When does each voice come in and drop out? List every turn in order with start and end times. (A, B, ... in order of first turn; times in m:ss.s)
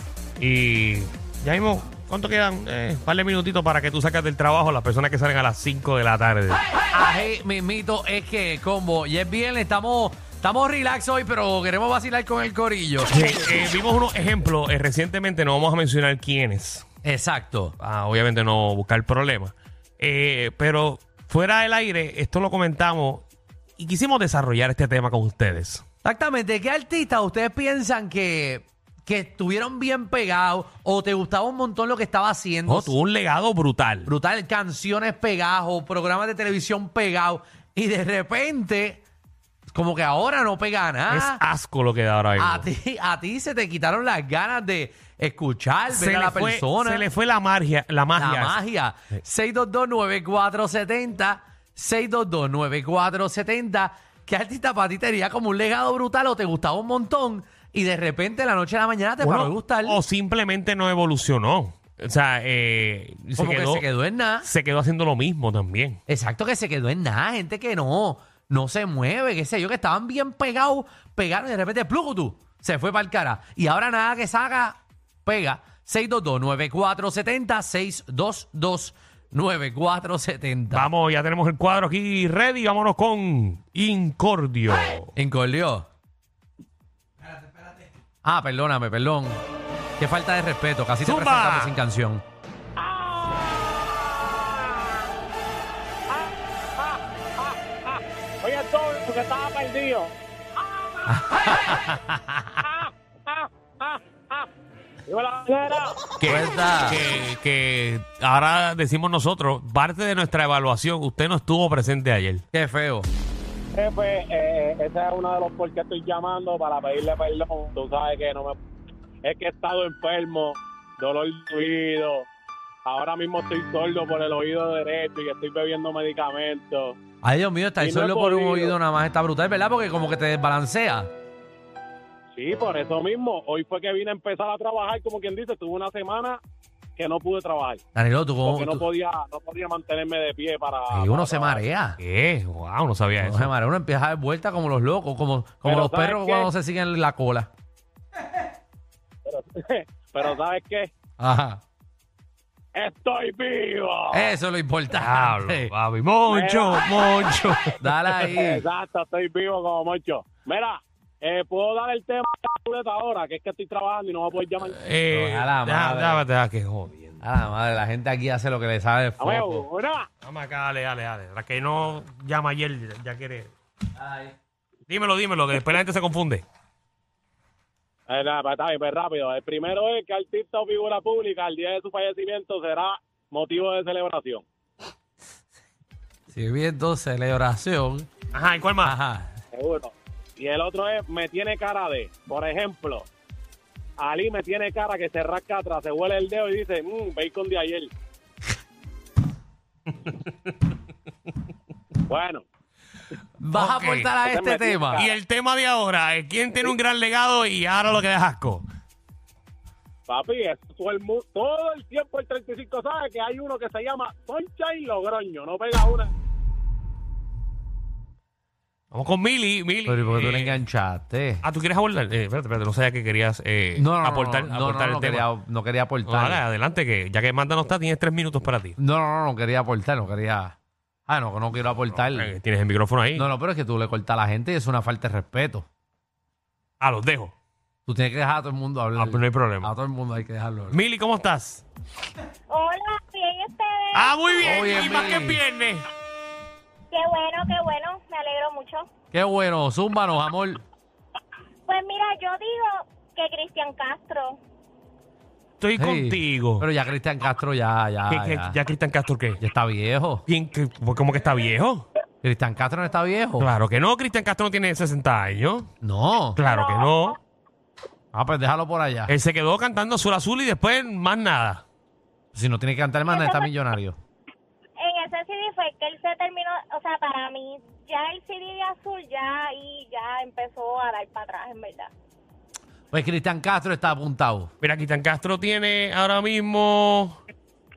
0:00.4-0:06.6 A
0:06.9-0:13.2 B
0:13.1-0:16.9 A
0:17.0-0:17.8 B
0:17.8-0:23.2 A
0:23.8-0:25.8 A
0:26.0-0:33.0 B
0:32.7-0:34.1 A
0:34.0-0:39.0 B
0:39.7-0:41.4 B
0:41.1-0:42.7 A
0:42.4-0:47.1 B
0:45.9-0:48.6 A
0:48.2-1:00.0 B
0:59.2-1:03.8 A
1:03.4-1:04.5 B
1:04.4-1:06.0 A
1:06.1-1:20.9 B
1:20.7-1:25.1 A
1:25.2-1:25.9 B
1:28.2-1:29.4 B
1:30.0-1:32.2 B
1:31.0-1:31.7 A
1:32.8-1:35.1 C
1:36.1-1:41.7 C
1:41.1-1:42.6 B
1:42.6-1:44.5 C
1:45.1-1:46.1 C
1:46.2-1:52.4 A
1:46.2-1:47.0 B
1:52.5-1:53.1 B
1:53.8-1:58.6 C
1:59.2-2:02.3 C
2:02.8-2:07.0 C
2:07.2-2:11.1 B
2:07.8-2:08.8 C
2:12.4-2:16.4 C
2:17.0-2:17.8 C
2:18.0-2:18.9 B
2:18.4-2:21.6 C
2:20.9-2:22.0 B
2:22.0-2:23.5 A
2:23.2-2:27.5 B
2:25.6-2:26.5 C
2:29.3-2:30.9 C
2:31.2-2:31.6 B
2:32.8-2:34.3 C
2:34.1-2:35.7 B
2:35.0-2:38.2 A
2:36.3-2:37.4 C
2:37.8-2:38.6 B
2:38.3-2:44.8 C
2:44.7-2:47.2 A
2:45.1-2:46.2 B
2:47.2-2:49.5 B
2:49.2-2:50.1 C
2:50.2-2:53.5 A
2:54.9-2:56.4 A
2:58.1-3:04.4 C
3:06.3-3:08.1 B
3:08.3-3:09.0 A
3:08.8-3:09.3 B
3:09.5-3:13.1 C
3:14.0-3:17.9 C
3:22.1-3:22.4 C
3:23.4-3:25.1 B
3:23.5-3:24.2 A
3:24.2-3:25.1 C
3:25.0-3:28.7 A
3:30.1-3:36.1 C
3:38.9-3:40.6 A
3:39.9-3:41.4 B
3:41.4-3:45.3 A
3:43.8-3:46.4 B
3:46.0-3:48.8 A
3:48.8-3:50.5 B
3:51.1-3:52.3 B
3:52.0-3:53.3 A
3:53.2-3:55.7 B
3:56.8-3:57.3 A
3:57.8-4:00.8 B
3:59.0-3:59.7 A
4:00.7-4:01.6 A
4:02.5-4:05.1 D
4:03.9-4:05.9 A
4:04.4-4:05.4 B
4:06.9-4:08.9 D
4:09.1-4:10.6 B
4:11.7-4:14.4 D
4:15.6-4:16.6 A
4:15.8-4:18.6 B
4:18.1-4:19.4 A
4:19.4-4:20.2 B
4:20.3-4:21.8 A
4:22.2-4:23.5 B
4:23.4-4:25.7 A
4:25.8-4:26.4 B
4:26.4-4:27.2 A
4:26.4-4:27.1 D
4:28.1-4:29.1 B
4:29.1-4:31.6 A
4:32.3-4:34.0 B
4:33.1-4:33.5 D
4:34.8-4:41.9 D
4:42.9-4:44.5 B
4:44.6-4:47.2 A